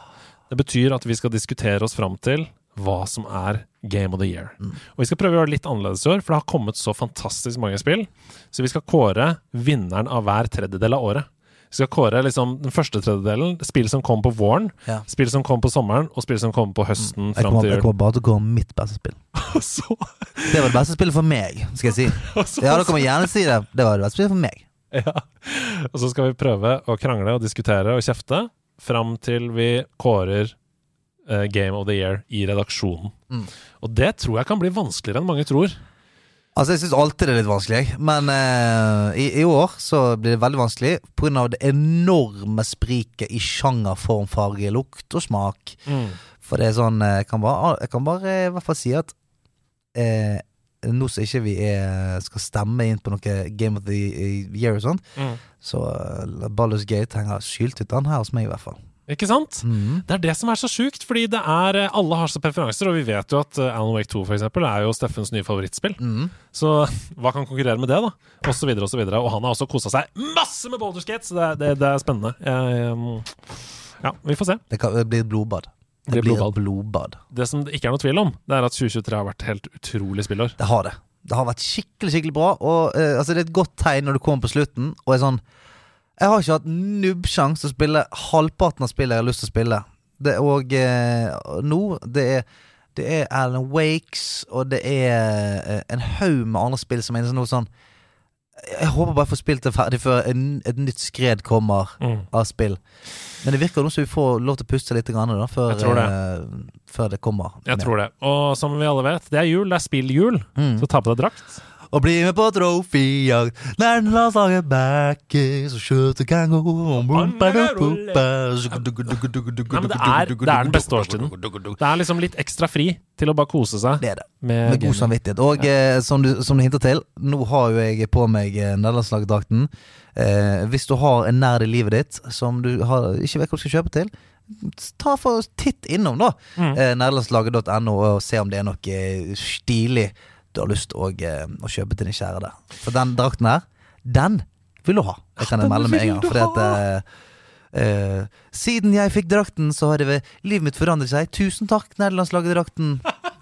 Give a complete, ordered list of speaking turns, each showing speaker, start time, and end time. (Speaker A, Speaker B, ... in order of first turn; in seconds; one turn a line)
Speaker A: 0.5-17.9
Speaker B: 17.0-19.2
Speaker A: 19.4-20.7
Speaker B: 20.5-24.7
Speaker A: 22.0-23.3
Speaker A: 24.9-30.6
Speaker A: 31.3-33.1
Speaker A: 33.8-35.8
Speaker B: 36.5-45.8
Speaker A: 45.9-46.2
Speaker B: 46.4-49.1
Speaker B: 49.9-55.0
Speaker B: 55.6-58.8
Speaker A: 59.1-73.4
Speaker B: 59.6-60.0
Speaker B: 66.0-66.3
Speaker A: 74.0-74.6
Speaker B: 74.7-77.2
Speaker A: 76.1-76.5
Speaker A: 77.3-80.5
Speaker B: 80.6-85.4
Speaker B: 86.2-97.7
Speaker B: 98.6-102.8
Speaker A: 102.0-102.3
Speaker B: 103.4-107.9
Speaker A: 105.7-106.1
Speaker A: 107.7-111.6
Speaker B: 110.6-110.9
Speaker B: 111.9-121.8
Speaker A: 117.0-118.9
Speaker A: 119.7-125.1
Speaker B: 124.0-147.1
Speaker A: 145.4-146.8
Speaker B: 147.7-153.1